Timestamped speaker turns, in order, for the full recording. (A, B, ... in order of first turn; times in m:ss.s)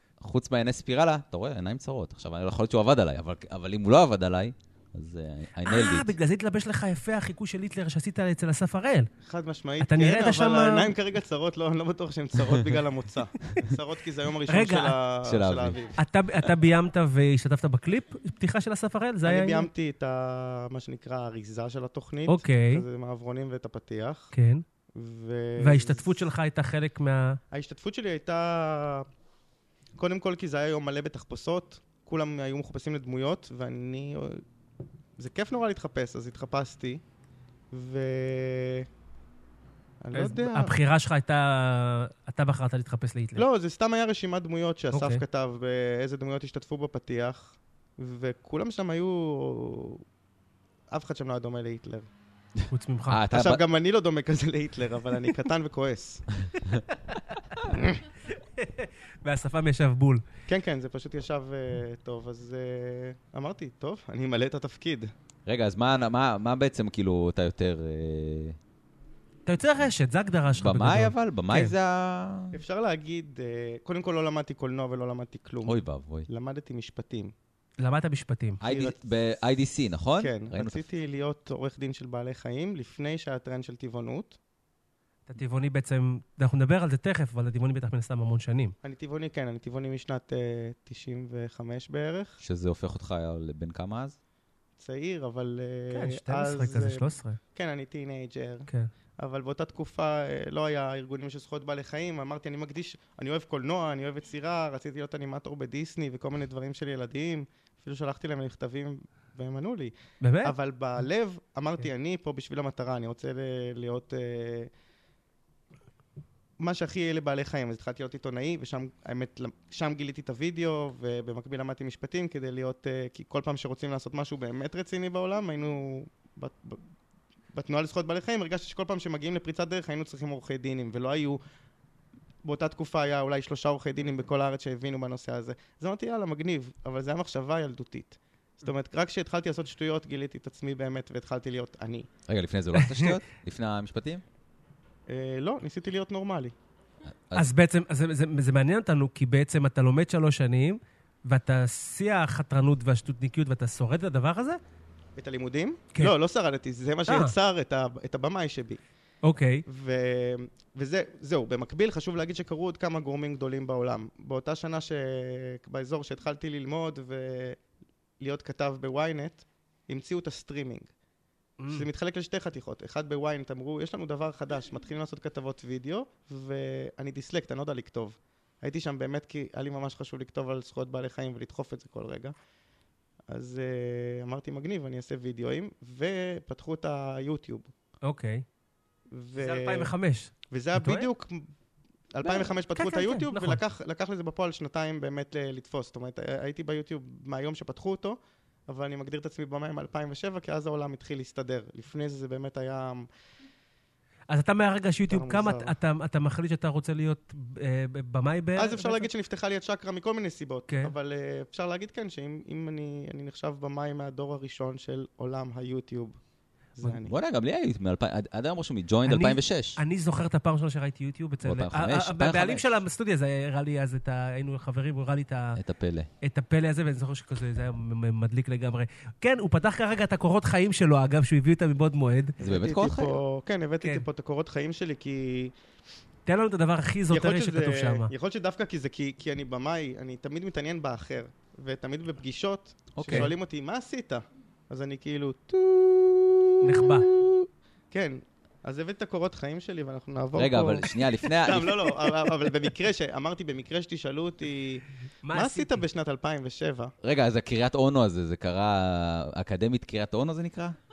0:00.2-0:06.1 A
0:05.6-0:09.1 B
0:09.2-0:16.0 C
0:09.8-0:10.9 B
0:14.5-0:15.0 B
0:15.2-0:15.8 A
0:16.0-0:19.7 B
0:19.2-0:24.3 C
0:22.3-0:22.8 B
0:24.3-0:24.6 B
0:24.9-0:26.2 C
0:25.6-0:27.4 B
0:27.5-0:29.1 C
0:30.0-0:34.4 C
0:35.2-0:37.0 C
0:37.7-0:38.9 C
0:40.0-0:40.8 C
0:40.1-0:43.4 B
0:43.4-0:50.0 C
0:44.9-0:45.2 B
0:50.9-0:52.1 C
0:52.6-0:53.6 A
0:52.7-0:53.2 B
0:53.3-0:56.3 C
0:56.6-0:56.8 A
0:57.0-1:00.2 B
0:57.7-0:58.0 C
1:00.5-1:05.1 C
1:05.4-1:08.6 A
1:09.4-1:11.7 B
1:10.5-1:12.6 A
1:12.5-1:17.3 C
1:15.6-1:16.3 A
1:17.8-1:18.6 B
1:18.6-1:20.8 A
1:18.6-1:19.0 C
1:20.2-1:24.4 C
1:25.3-1:28.8 B
1:28.8-1:32.4 C
1:32.4-1:34.2 A
1:34.8-1:38.7 C
1:35.9-1:37.4 B
1:39.2-1:54.7 C
1:50.2-1:50.5 B
1:56.6-2:06.8 C
2:07.5-2:11.4 C
2:12.4-2:22.1 C
2:22.3-2:24.2 A
2:22.8-2:23.1 B
2:25.1-2:26.5 C
2:27.1-2:27.5 A
2:27.3-2:34.6 B
2:35.2-2:38.8 C
2:37.1-2:37.3 B
2:39.2-2:39.6 B
2:39.7-2:47.6 C
2:48.2-2:50.9 C
2:51.6-2:51.9 B
2:51.7-3:02.3 C
3:03.3-3:07.7 C
3:08.0-3:08.4 B
3:09.1-3:09.9 C
3:09.4-3:11.1 B
3:10.5-3:11.5 C
3:12.1-3:23.1 C
3:12.2-3:13.6 B
3:24.3-3:29.1 B
3:25.1-3:25.7 C
3:28.6-3:36.2 C
3:30.7-3:30.9 B
3:36.8-3:37.2 C
3:37.0-3:39.8 A
3:39.1-3:45.6 B
3:41.4-3:42.8 A
3:45.6-3:46.1 A
3:46.2-3:52.4 B
3:52.4-3:55.5 C
3:52.4-3:53.2 A
3:53.8-3:54.1 B
3:56.3-3:58.1 B
3:57.1-4:16.9 C
4:02.9-4:03.3 A
4:03.0-4:03.3 B
4:06.6-4:07.1 B
4:10.3-4:11.9 A
4:15.2-4:15.8 B
4:17.0-4:20.8 A